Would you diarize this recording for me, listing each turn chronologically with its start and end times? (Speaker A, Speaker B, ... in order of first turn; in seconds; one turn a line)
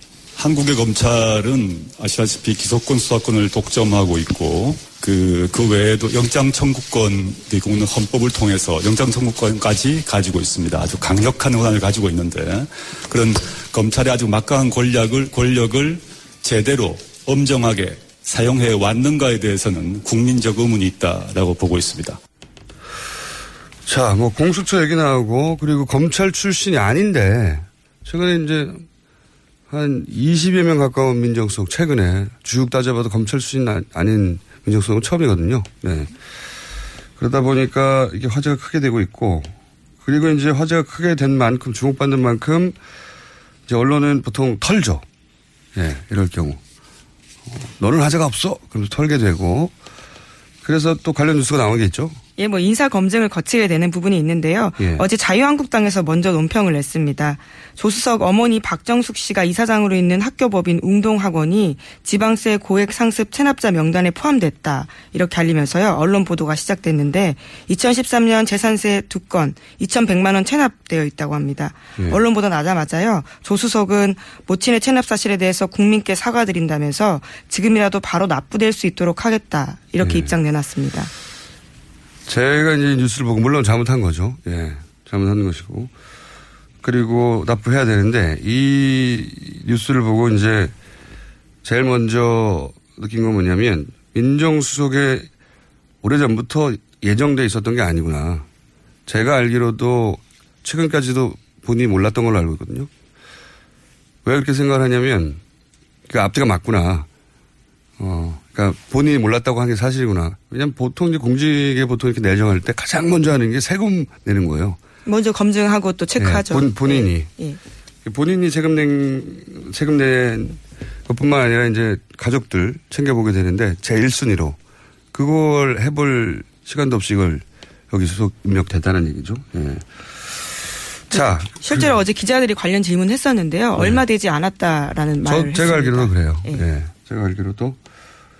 Speaker A: 0.3-22.2
Speaker B: 23.9-28.9
Speaker B: 29.7-36.1
Speaker B: 37.2-42.8
Speaker B: 43.7-45.0
Speaker B: 45.7-46.6
Speaker B: 47.5-49.7
Speaker B: 50.6-52.2
Speaker C: 52.4-81.1
Speaker B: 54.8-55.0
Speaker B: 80.0-80.3
Speaker B: 82.3-85.9
Speaker B: 86.8-90.7
Speaker B: 91.6-95.3
Speaker B: 96.0-98.5
Speaker B: 99.1-102.9
Speaker B: 104.2-105.4
Speaker B: 106.1-107.1
Speaker B: 108.0-114.8
Speaker C: 115.0-117.6
Speaker B: 116.2-117.3
Speaker B: 118.0-124.6
Speaker B: 125.1-129.8
Speaker B: 131.1-131.9
Speaker C: 131.1-136.6
Speaker B: 135.2-137.8